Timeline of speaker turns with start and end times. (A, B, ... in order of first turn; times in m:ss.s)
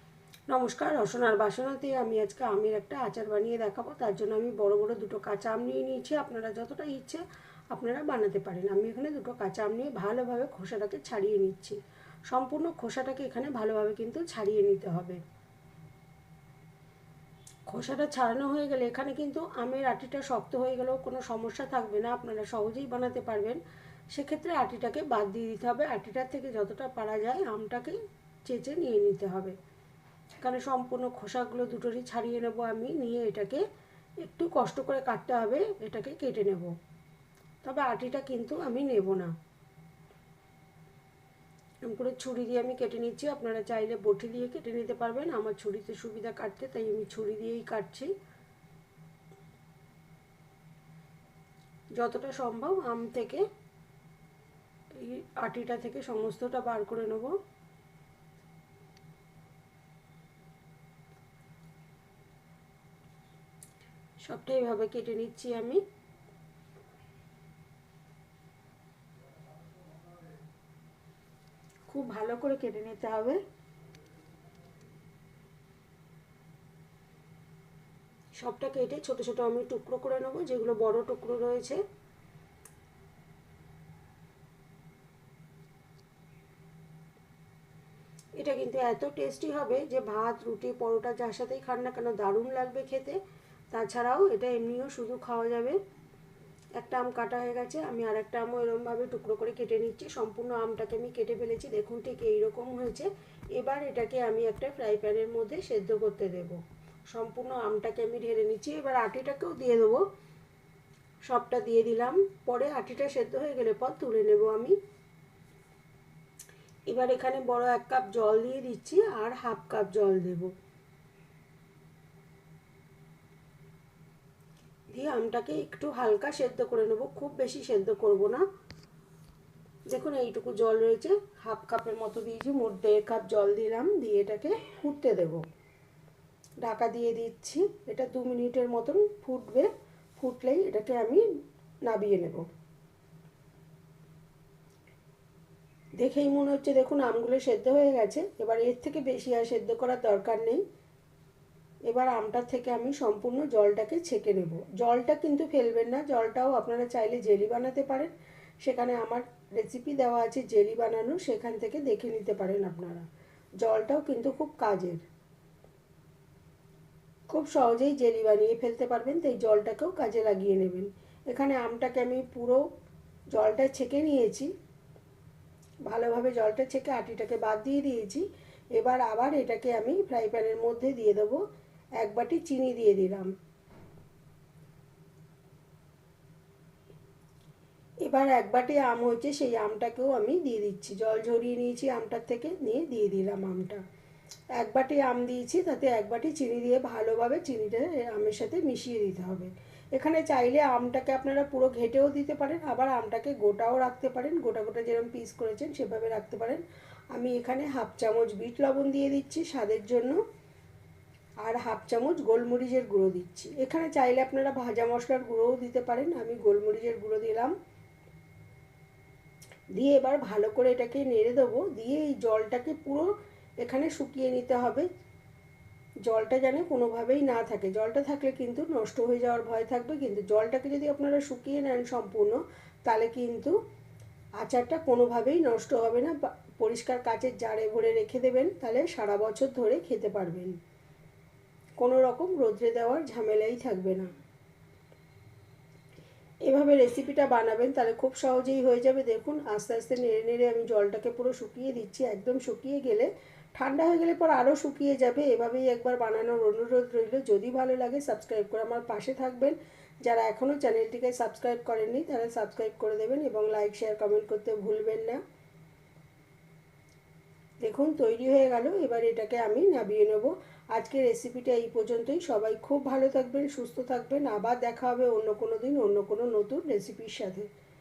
0:00.5-0:15.2 A
0:17.7-0:23.6 A
0:24.1-0:29.6 A
0:30.4-0:33.6 A
0:34.2-0:36.7 A
0:37.6-0:39.3 A
0:41.8-0:48.1 A
0:51.9-0:53.4 A
0:55.0-0:57.4 A
1:04.2-1:05.8 A
1:11.9-1:13.4 A
1:18.4-1:21.8 A
1:28.4-1:33.2 A
1:33.7-1:35.8 A
1:36.8-1:46.6 A
1:47.1-1:50.0 A
1:51.2-1:54.8 A
1:56.9-2:00.5 A
2:04.9-2:08.4 A
2:09.9-2:15.4 A
2:16.6-2:21.2 A
2:21.8-2:22.5 A
2:26.0-2:30.6 A
2:31.9-2:43.0 A
2:43.6-2:45.0 A
2:47.3-2:52.6 A
2:53.3-2:54.5 A
2:55.8-3:01.4 A
3:02.0-3:03.3 A
3:08.0-3:13.8 A
3:14.6-3:26.6 A
3:27.1-3:30.2 A
3:31.4-3:37.5 A
3:39.7-3:43.1 A
3:43.6-3:44.9 A
3:46.0-3:53.6 A
3:54.4-4:00.6 A
4:01.8-4:04.1 A
4:06.4-4:25.2 A
4:27.6-4:37.5 A